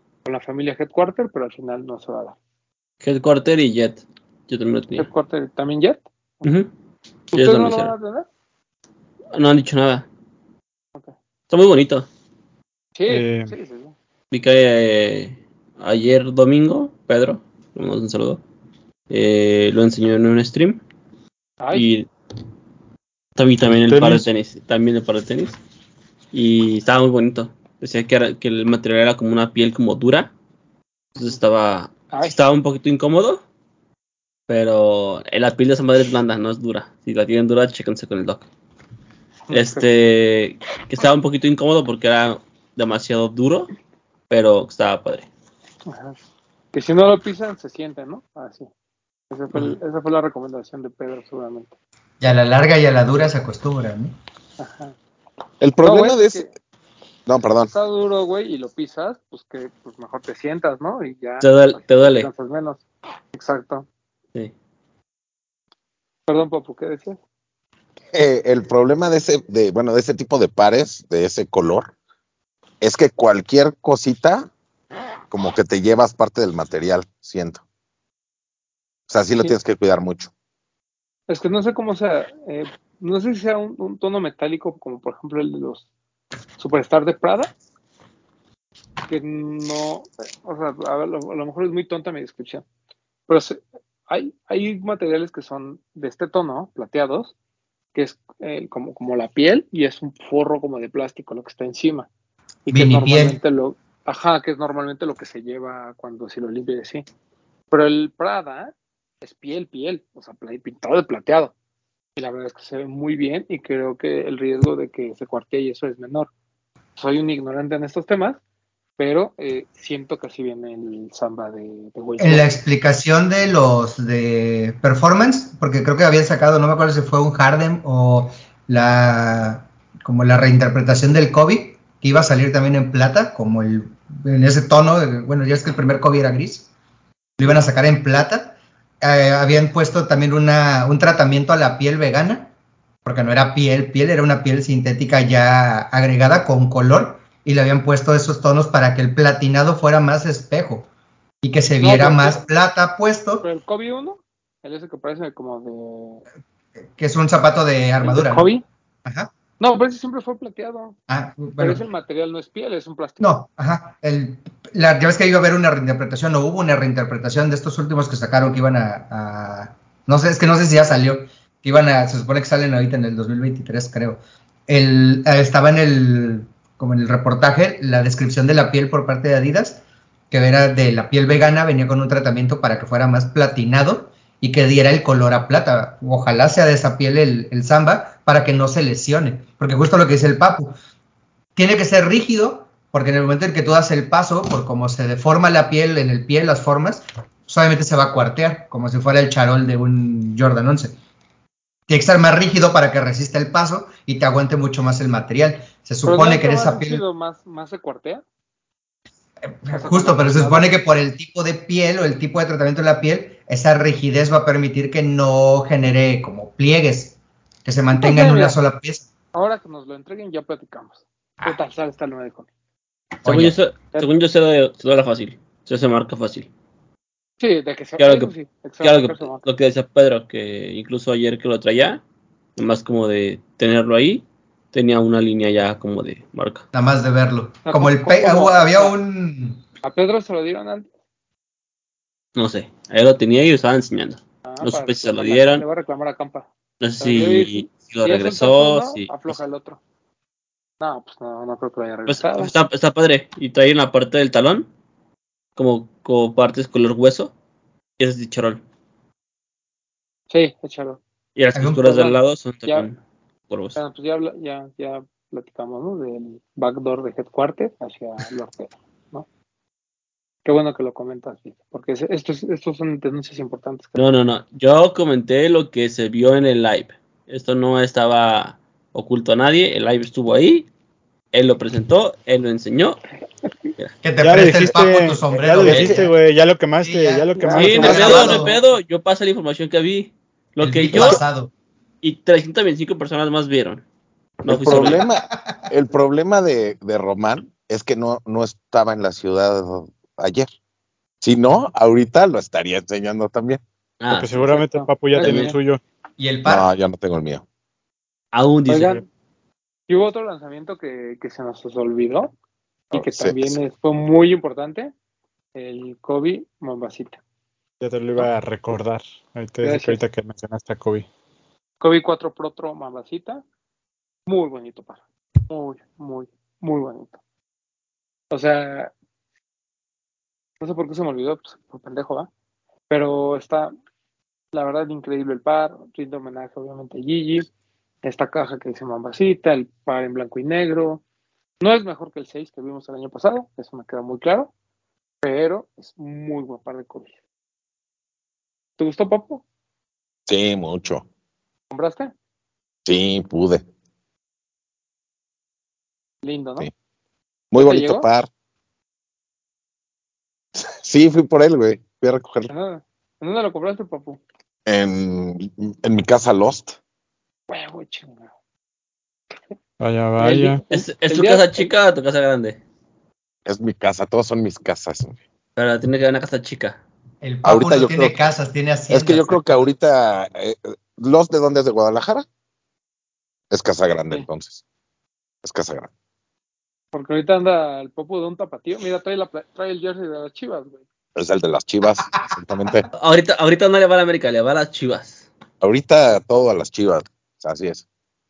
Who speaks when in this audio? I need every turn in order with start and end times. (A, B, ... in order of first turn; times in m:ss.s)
0:00.2-0:02.4 A
0:03.0-0:05.1 B
0:04.9-0:06.4 A
0:06.4-0:06.7 B
0:07.3-0:07.9 B
0:07.3-0:08.2 A
0:09.3-0:10.0 B
0:11.5-0:12.1 B
0:13.0-0:13.9 A
0:13.1-0:13.5 C
0:14.3-0:18.4 B
0:19.1-0:20.8 B
0:21.6-0:21.9 A
0:21.7-0:22.1 B
0:23.4-0:25.6 B
0:23.7-0:24.3 C
0:26.3-0:30.3 B
0:31.2-0:33.4 B
0:34.5-0:38.5 B
0:39.5-0:39.9 A
0:39.5-0:43.7 B
0:44.3-0:45.3 B
0:45.8-0:46.2 A
0:46.7-0:48.7 A
0:49.3-0:51.7 A
0:52.2-0:54.1 D
0:54.6-0:55.0 A
0:55.6-0:56.4 E
0:55.8-0:56.5 A
0:57.2-0:57.7 E
0:57.7-1:03.8 A
1:01.4-1:02.3 B
1:06.3-1:07.2 A
1:08.1-1:11.9 E
1:12.8-1:14.5 E
1:15.3-1:17.6 E
1:19.1-1:20.3 E
1:21.3-1:25.8 A
1:26.6-1:27.5 A
1:29.1-1:32.6 A
1:33.3-1:37.3 A
1:37.9-1:42.1 A
1:42.6-1:47.0 A
1:42.7-1:43.4 D
1:47.7-1:51.5 A
1:52.2-1:56.3 A
1:57.0-1:58.4 A
1:59.0-2:02.5 A
2:02.2-2:16.7 D
2:17.4-2:22.5 D
2:23.0-2:30.9 D
2:31.4-2:33.4 D
2:31.8-2:32.5 A
2:33.4-2:36.2 A
2:37.0-2:38.5 D
2:38.0-2:38.6 A
2:39.0-2:39.3 D
2:39.6-2:41.0 A
2:41.1-2:41.8 D
2:41.6-2:43.3 A
2:43.2-3:10.8 D
3:11.6-3:21.0 D
3:21.9-3:27.0 D
3:26.0-3:28.2 A
3:29.5-3:39.1 D
3:29.7-3:30.7 A
3:37.9-3:38.6 A
3:39.3-3:42.5 A
3:43.2-3:43.6 D
3:43.2-3:46.5 B
3:47.4-3:49.4 A
3:48.0-3:48.3 B
3:48.8-3:52.0 B
3:52.6-3:56.6 B
3:56.7-3:59.6 D
3:57.6-3:58.9 A
3:59.8-4:00.9 A
4:02.4-4:05.6 B
4:04.4-4:06.5 A
4:06.8-4:09.4 B
4:07.0-4:09.8 A
4:10.8-4:12.5 A
4:12.1-4:14.7 B
4:15.6-4:17.3 B
4:18.0-4:18.6 B
4:20.3-4:21.0 A
4:21.4-4:23.0 B
4:21.5-4:21.8 D
4:21.8-4:22.9 A
4:23.5-4:23.8 B
4:23.8-4:29.3 A
4:30.4-4:34.0 A
4:33.9-4:40.7 B
4:41.3-4:43.0 B
4:44.0-4:46.1 D
4:44.2-4:48.4 C
4:45.6-4:46.0 E
4:46.8-4:48.5 D
4:47.4-4:48.6 A
4:47.6-4:51.2 B
4:50.6-4:51.5 D
4:52.0-4:53.8 B
4:54.4-4:55.0 B
4:54.4-5:00.5 E
4:54.8-4:55.7 D
5:01.2-5:03.6 E
5:04.0-5:04.4 B
5:04.1-5:05.8 C
5:04.4-5:05.6 A
5:06.2-5:06.7 D
5:06.4-5:07.4 E
5:08.3-5:09.0 B
5:08.7-5:09.0 A
5:09.9-5:12.3 A
5:12.9-5:14.9 A
5:12.9-5:13.6 E
5:15.5-5:17.2 A
5:17.8-5:21.1 C
5:19.6-5:20.0 A
5:21.8-5:23.4 A
5:24.3-5:27.2 A
5:28.3-5:28.9 A
5:30.6-5:32.3 A
5:32.9-5:33.7 A
5:34.5-5:37.5 A
5:38.0-5:41.0 A
5:41.6-5:44.5 A
5:45.2-5:47.1 A
5:48.8-5:49.4 A
5:50.3-5:51.0 E
5:51.7-5:52.1 A
5:52.8-5:53.6 E
5:56.2-5:56.7 A
5:57.5-5:58.3 E
5:57.5-5:58.1 A
6:00.6-6:02.5 E
6:02.5-6:04.2 A
6:04.6-6:06.8 E
6:07.5-6:08.3 A
6:09.8-6:10.6 C
6:10.2-6:11.7 A
6:10.7-6:12.6 B
6:13.4-6:15.2 E
6:15.6-6:16.8 B
6:17.2-6:19.7 D
6:17.4-6:18.2 E
6:18.9-6:22.2 E
6:23.5-6:24.6 E
6:25.4-6:25.9 E
6:26.9-6:30.8 A
6:31.2-6:32.9 E
6:32.9-6:35.3 B
6:35.6-6:37.8 E